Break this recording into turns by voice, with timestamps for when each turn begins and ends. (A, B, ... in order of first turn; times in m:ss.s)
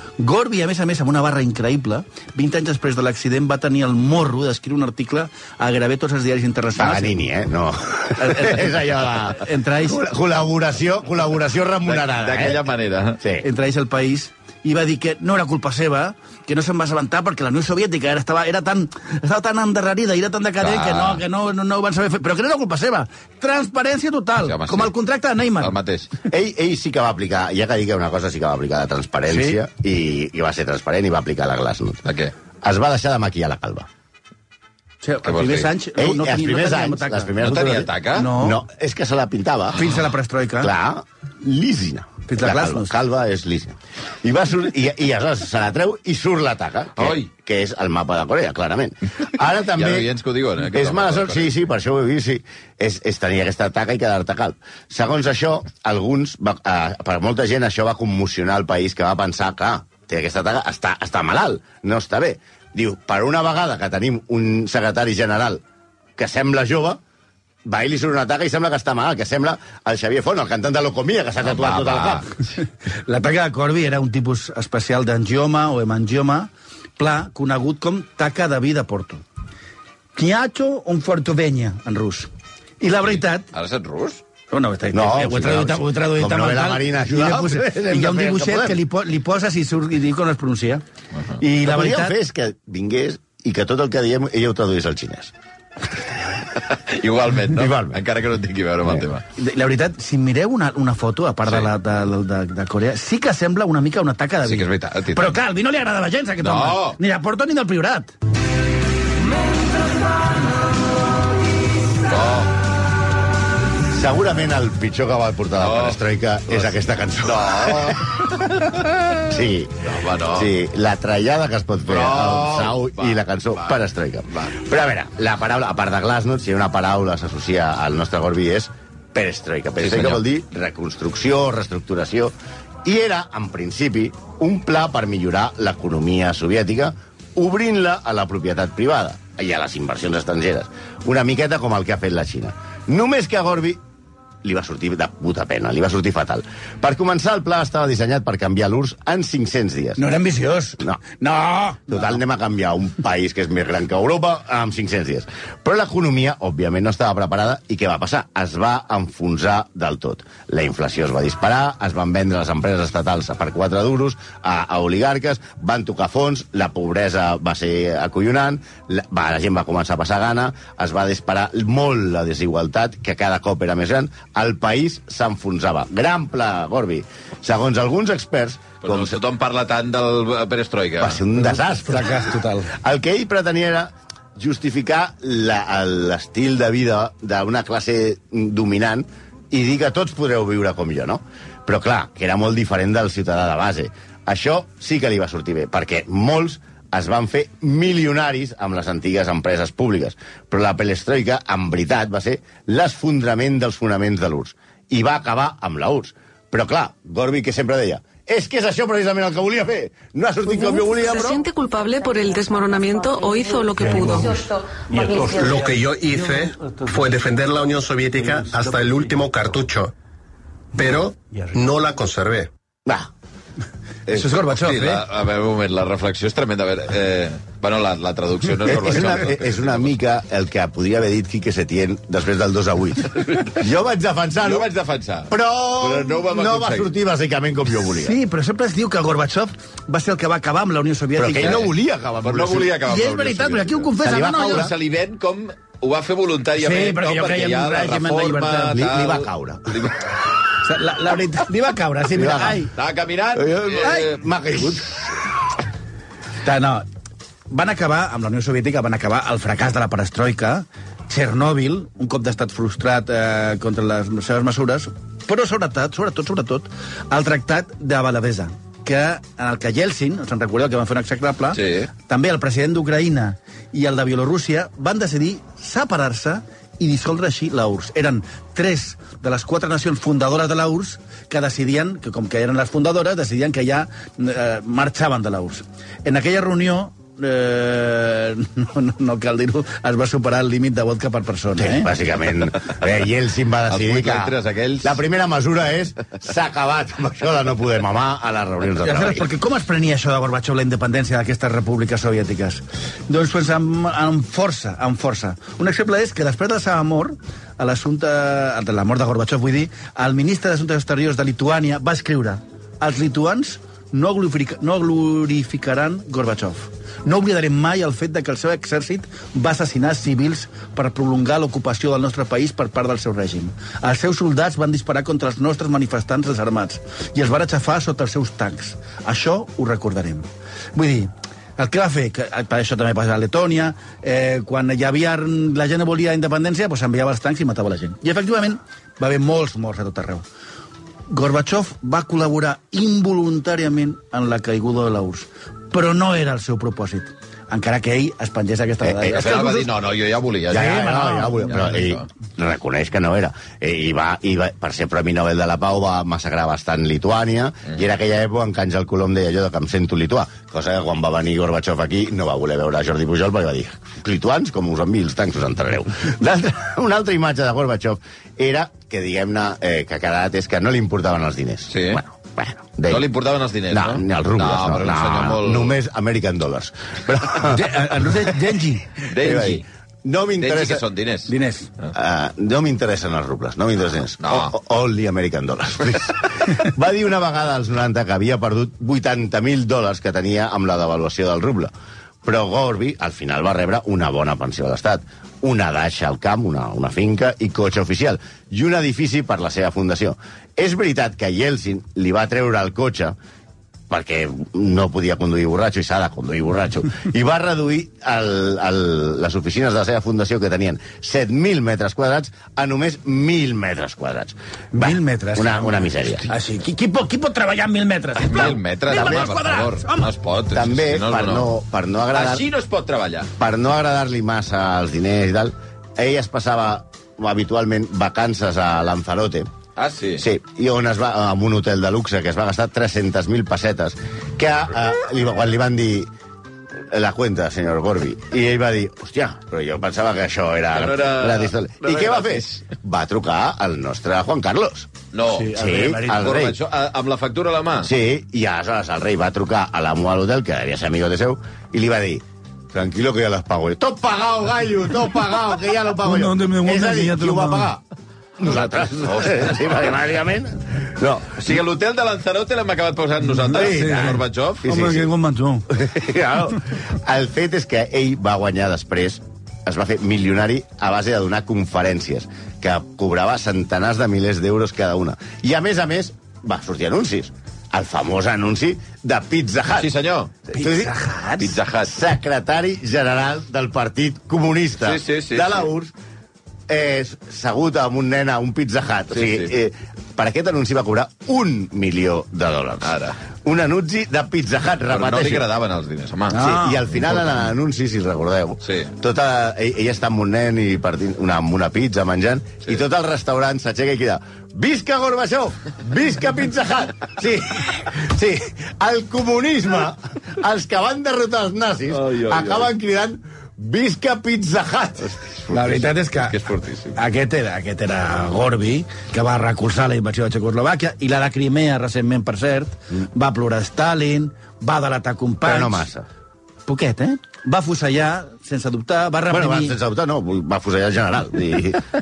0:00.2-0:07.2 A
0:06.8-0:12.6 B
0:08.2-0:08.8 A
0:09.3-0:10.0 A
0:11.9-0:13.2 C
0:13.2-0:13.4 B
0:13.4-0:25.8 A
0:20.6-0:21.2 C
0:24.4-0:24.9 C
0:25.6-0:26.1 C
0:26.3-0:32.1 B
0:29.3-0:29.6 A
0:32.0-0:32.3 C
0:32.6-0:33.9 B
0:35.0-0:37.3 A
0:35.2-0:35.7 C
0:36.0-0:39.8 B
0:37.4-0:38.3 C
0:38.1-0:38.6 A
0:39.8-0:40.7 A
0:40.6-0:50.1 B
0:42.3-0:43.0 A
0:47.0-0:47.3 C
0:49.7-0:51.5 C
0:50.7-1:05.6 B
1:06.2-1:07.0 B
1:07.7-1:12.3 B
1:11.4-1:12.3 C
1:13.0-1:19.2 A
1:20.2-1:22.3 A
1:22.8-1:23.5 A
1:23.5-1:24.2 C
1:24.5-1:30.8 A
1:24.9-1:28.8 B
1:31.4-1:32.2 A
1:31.6-1:35.3 B
1:36.6-1:39.2 C
1:37.5-1:38.0 B
1:39.4-1:48.1 A
1:44.4-1:45.4 C
1:46.4-1:47.0 C
1:52.1-1:52.5 C
1:53.9-1:58.1 B
1:55.6-1:59.2 C
1:59.3-2:23.8 B
1:59.8-2:00.5 C
2:01.9-2:03.8 C
2:09.8-2:10.2 C
2:24.4-2:30.0 B
2:30.0-2:32.0 A
2:31.9-2:59.2 B
2:58.8-3:01.2 C
3:01.0-3:31.4 B
3:01.4-3:02.7 A
3:30.8-3:34.4 D
3:34.9-3:39.9 E
3:40.7-3:42.5 E
3:42.9-3:43.1 B
3:44.1-3:45.0 A
3:44.5-3:50.0 C
3:48.7-3:54.7 B
3:53.2-3:53.6 C
3:54.4-3:56.9 C
3:55.3-3:58.2 B
3:57.9-4:01.7 A
4:01.2-4:02.8 B
4:01.4-4:01.7 C
4:02.2-4:10.0 C
4:02.8-4:04.7 A
4:04.0-4:04.8 B
4:06.6-4:08.8 A
4:08.7-4:09.8 B
4:10.6-4:12.7 A
4:12.1-4:12.7 B
4:12.7-4:14.3 C
4:13.4-4:15.1 B
4:16.4-4:16.9 A
4:17.5-4:51.9 A
4:31.5-4:31.9 C
4:51.6-4:59.3 B
4:53.7-4:55.0 C
4:58.8-5:40.2 A
5:41.1-5:49.7 A
5:48.8-5:49.3 B
5:49.1-5:50.8 C
5:50.5-6:13.0 B
5:50.5-5:51.7 A
5:51.5-5:52.0 C
6:11.7-6:12.0 C
6:12.9-6:15.8 C
6:13.7-6:18.1 B
6:17.4-6:18.9 A
6:19.1-6:19.6 C
6:19.2-6:20.8 B
6:20.4-6:21.3 C
6:21.3-6:21.7 A
6:21.9-6:31.7 B
6:24.2-6:24.6 C
6:32.2-6:43.2 B
6:43.9-6:56.3 B
6:54.7-7:00.1 A
6:58.2-7:01.5 C
6:58.9-6:59.3 B
7:00.5-7:02.5 B
7:02.1-7:03.3 C
7:03.4-7:09.5 B
7:09.8-7:10.2 C
7:10.2-7:16.1 B
7:16.9-7:24.9 B
7:20.8-7:22.7 C
7:25.1-7:27.9 C
7:25.3-7:26.3 A
7:25.5-7:26.6 B
7:27.8-7:37.8 B
7:36.0-7:37.7 A
7:38.4-7:41.5 B
7:38.8-7:39.7 C
7:41.4-7:44.7 C
7:43.3-7:45.7 A
7:43.5-7:45.1 B
7:45.7-7:59.9 B
7:59.8-8:00.4 C
8:00.5-8:00.9 B
8:00.5-8:01.6 A
8:01.4-8:01.9 C
8:01.8-8:05.9 B
8:04.8-8:05.7 C
8:06.7-8:15.5 B
8:09.1-8:09.5 C
8:12.8-8:13.2 C
8:14.9-8:16.4 C
8:16.3-8:17.0 A
8:16.4-8:35.1 B
8:18.6-8:18.9 C
8:31.9-8:32.7 C
8:35.0-8:37.0 C
8:35.5-8:36.4 A
8:37.0-8:45.9 A
8:45.4-8:46.1 B
8:46.7-8:49.8 A
8:49.3-8:51.8 B